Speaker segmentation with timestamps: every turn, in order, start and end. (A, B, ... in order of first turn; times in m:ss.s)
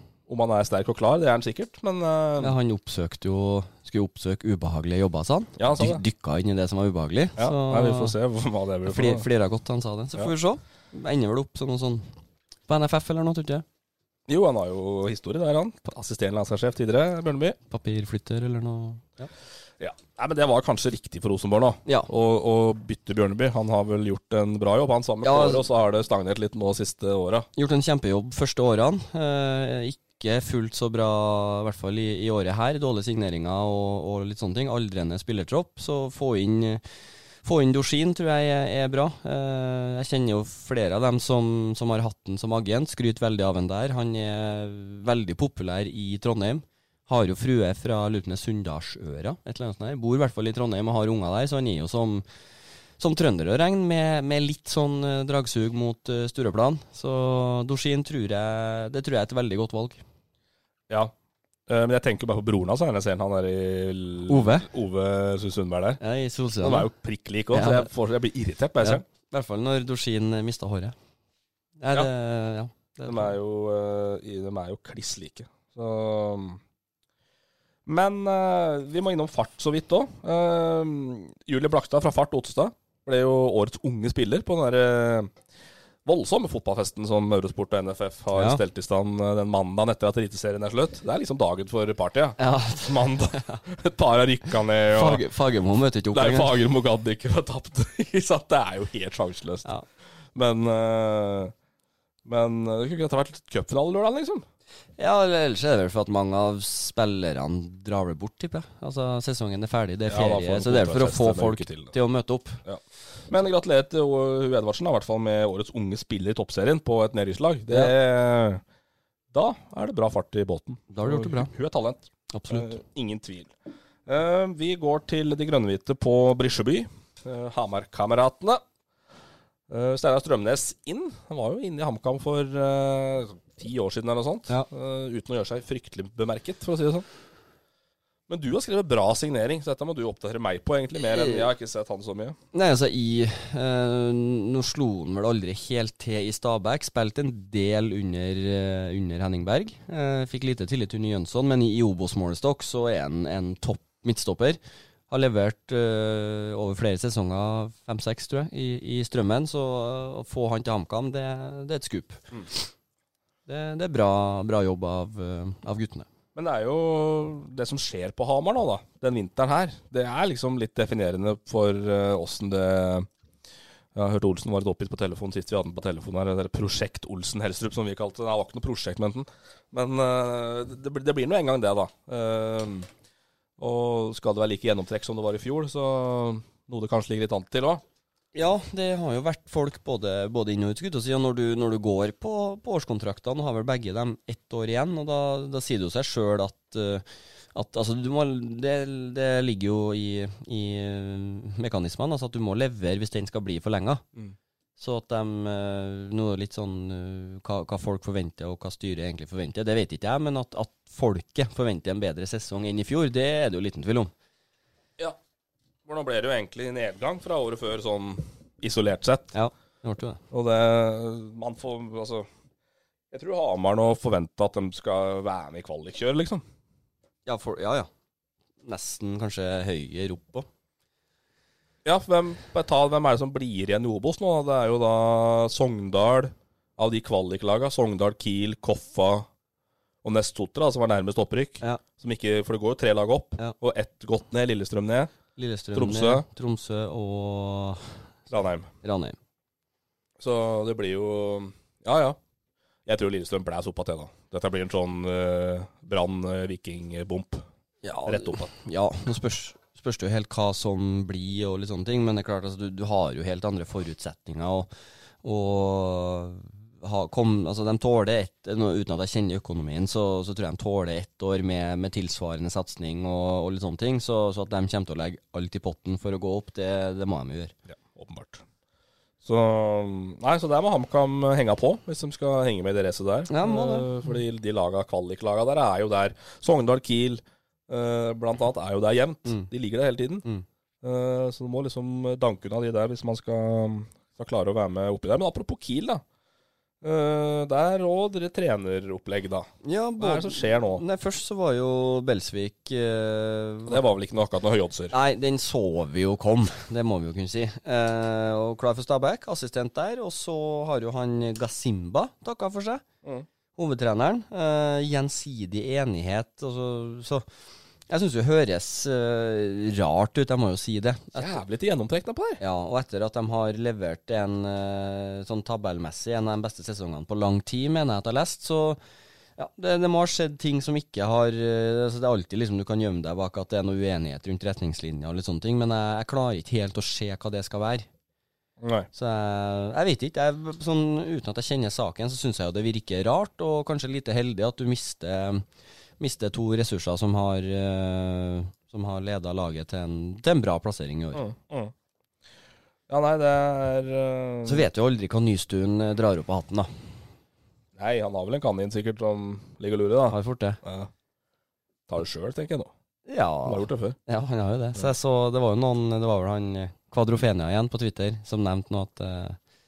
0:00.3-0:02.5 A
0:02.4-0:08.1 B
0:05.6-0:06.0 A
0:07.4-0:09.2 A
0:08.8-0:12.1 B
0:12.7-0:13.6 B
0:14.3-0:17.6 A
0:17.7-0:19.3 B
0:19.8-0:27.5 A
0:25.2-0:25.6 B
0:27.6-0:36.8 B
0:37.4-0:52.2 B
0:53.0-1:00.0 B
1:01.7-1:06.0 A
1:04.3-1:04.7 B
1:06.0-1:06.9 B
1:06.6-1:09.0 A
1:07.5-1:07.9 B
1:08.8-1:10.9 B
1:11.8-1:13.4 B
1:13.1-1:16.6 A
1:17.8-1:25.3 A
1:26.0-1:35.2 A
1:28.4-1:28.6 B
1:32.4-1:33.6 B
1:34.9-1:36.6 B
1:36.1-1:39.7 A
1:40.3-1:41.5 A
1:42.2-1:44.4 A
1:45.0-1:52.6 B
1:50.1-1:51.9 A
1:52.6-1:58.6 A
1:59.3-2:03.5 A
2:00.9-2:01.5 B
2:02.3-2:02.7 B
2:04.1-2:08.6 A
2:09.7-2:17.0 A
2:18.3-2:22.4 A
2:21.1-2:21.5 B
2:22.5-2:34.6 B
2:35.1-2:42.6 B
2:43.5-2:46.0 B
2:46.3-2:53.1 A
2:53.9-3:02.9 A
3:03.6-3:07.8 A
3:08.3-3:24.0 B
3:24.8-3:34.1 B
3:35.8-3:39.3 A
3:39.3-3:40.2 B
3:40.3-3:42.3 A
3:43.1-3:46.4 A
3:47.2-3:47.9 B
3:48.6-3:50.4 B
3:51.8-3:59.2 A
4:00.0-4:05.1 A
4:05.4-4:08.0 B
4:05.7-4:06.2 A
4:08.3-4:08.7 A
4:08.8-4:09.2 B
4:10.2-4:12.2 A
4:12.8-4:17.4 A
4:17.8-4:24.7 B
4:18.1-4:18.5 A
4:25.2-4:37.5 B
4:37.7-4:38.4 A
4:39.2-4:50.2 A
4:43.3-4:43.9 B
4:50.8-4:56.0 A
4:56.8-5:00.8 A
4:59.6-5:03.8 B
5:03.7-5:04.9 A
5:04.9-5:12.8 B
5:13.6-5:17.2 B
5:17.9-5:21.4 B
5:21.2-5:22.4 A
5:22.4-5:28.8 B
5:29.4-5:37.9 B
5:38.6-5:38.9 A
5:38.9-5:45.4 B
5:46.0-5:51.2 B
5:51.1-5:51.7 A
5:52.9-5:54.6 A
5:54.4-5:56.7 B
5:57.8-6:00.9 A
6:00.1-6:00.6 B
6:01.9-6:02.7 A
6:03.1-6:09.4 B
6:03.4-6:04.0 A